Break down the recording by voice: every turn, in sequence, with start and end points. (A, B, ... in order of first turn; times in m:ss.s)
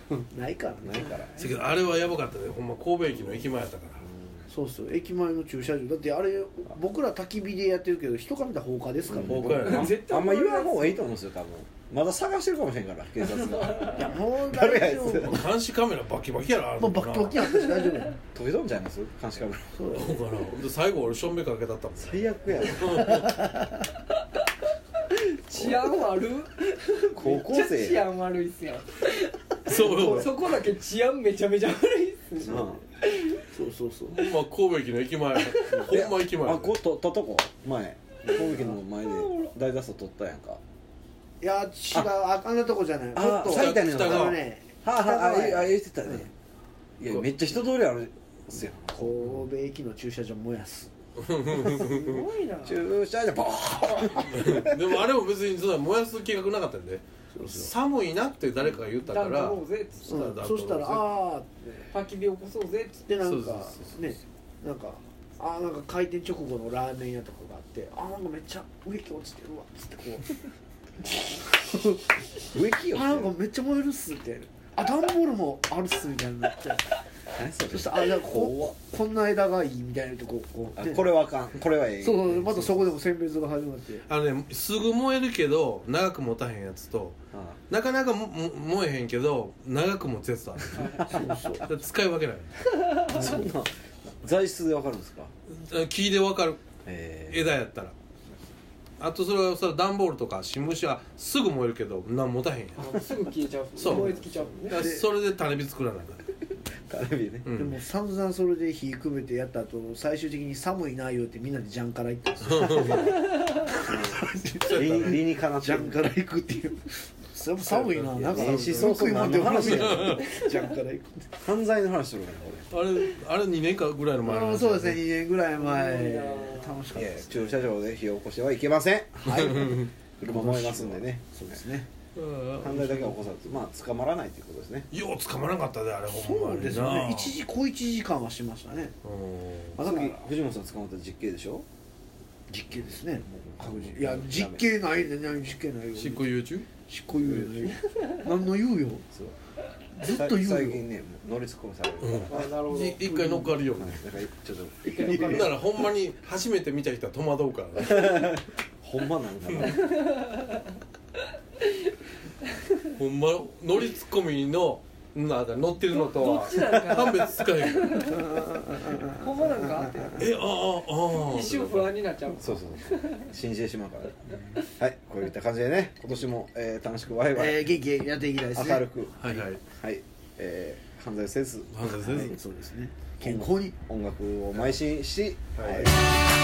0:00.3-0:01.2 A
0:00.8-0:01.5 B
0:01.4-0:04.1 C
0:04.0-0:04.4 B
0:04.5-0:09.7 A
0:09.1-0:15.4 B
0:09.1-0:10.0 C
0:09.6-0:11.1 D
0:13.5-0:14.0 D
0:13.8-0:15.4 A
0:15.1-0:17.7 C
0:16.8-0:18.2 A
0:18.3-0:20.0 B
0:19.7-0:20.2 A
0:19.9-0:23.5 C
0:22.0-0:23.2 B
0:23.2-0:23.5 A
0:25.1-0:33.4 D
0:27.1-0:28.0 B
0:29.7-0:30.4 C
0:29.7-0:30.3 A
0:32.4-0:32.8 A
0:32.4-0:32.8 B
0:33.5-0:34.2 A
0:34.1-0:36.8 C
0:35.5-0:35.9 D
0:35.8-0:40.6 B
0:38.3-0:38.8 A
0:41.4-0:46.3 A
0:41.9-0:42.2 B
0:43.1-0:46.3 B
0:43.5-0:44.4 C
0:47.0-0:49.2 B
0:48.9-0:50.9 A
0:51.2-0:52.2 C
0:51.7-0:52.9 D
0:52.6-0:54.8 B
0:54.3-1:01.1 C
0:57.4-0:57.7 A
0:59.0-1:00.3 D
1:00.1-1:01.9 A
1:01.9-1:03.1 D
1:03.1-1:10.4 A
1:03.2-1:04.2 C
1:11.0-1:12.0 A
1:12.4-1:13.3 B
1:12.9-1:16.9 A
1:17.3-1:18.7 B
1:17.7-1:21.1 A
1:20.8-1:22.8 B
1:22.0-1:24.0 A
1:24.1-1:27.2 C
1:27.3-1:27.6 B
1:27.7-1:33.1 C
1:30.7-1:31.4 D
1:31.1-1:31.7 A
1:33.0-1:35.3 B
1:35.5-1:36.6 C
1:36.8-1:37.6 B
1:37.3-1:38.0 C
1:39.0-1:42.9 C
1:42.8-1:44.8 D
1:43.8-1:44.1 C
1:43.9-1:45.1 A
1:44.7-1:46.3 C
1:46.9-1:47.5 B
1:47.4-1:47.8 C
1:47.5-1:54.8 A
1:52.4-1:53.2 C
1:53.8-1:56.0 B
1:54.5-1:55.2 C
1:55.6-2:01.4 A
1:57.7-2:00.4 C
1:57.7-2:00.3 B
2:01.4-2:02.7 B
2:02.7-2:05.0 C
2:04.2-2:07.6 A
2:05.6-2:06.8 D
2:06.9-2:11.6 B
2:09.2-2:11.9 A
2:12.2-2:13.2 C
2:12.6-2:14.9 B
2:14.9-2:17.4 C
2:16.1-2:19.0 A
2:19.0-2:19.8 C
2:19.8-2:20.2 A
2:19.8-2:21.7 B
2:22.5-2:24.8 B
2:22.6-2:29.0 A
2:26.0-2:26.7 C
2:27.2-2:27.8 B
2:29.9-2:30.8 A
2:30.1-2:32.5 B
2:32.0-2:34.0 C
2:32.3-2:33.2 D
2:33.1-2:33.5 A
2:33.7-2:35.4 B
2:34.9-2:35.6 D
2:35.0-2:35.4 A
2:35.1-2:38.4 C
2:37.8-2:39.9 B
2:39.9-2:40.6 D
2:42.9-2:48.2 C
2:45.9-2:48.4 D
2:48.1-2:50.2 A
2:49.0-2:50.3 D
2:50.2-2:51.9 C
2:51.1-2:53.3 D
2:52.3-2:57.8 B
2:57.3-2:58.8 A
2:58.5-3:02.3 B
2:59.2-2:59.6 C
3:01.7-3:02.4 C
3:02.0-3:03.8 A
3:03.2-3:06.2 B
3:05.6-3:05.9 C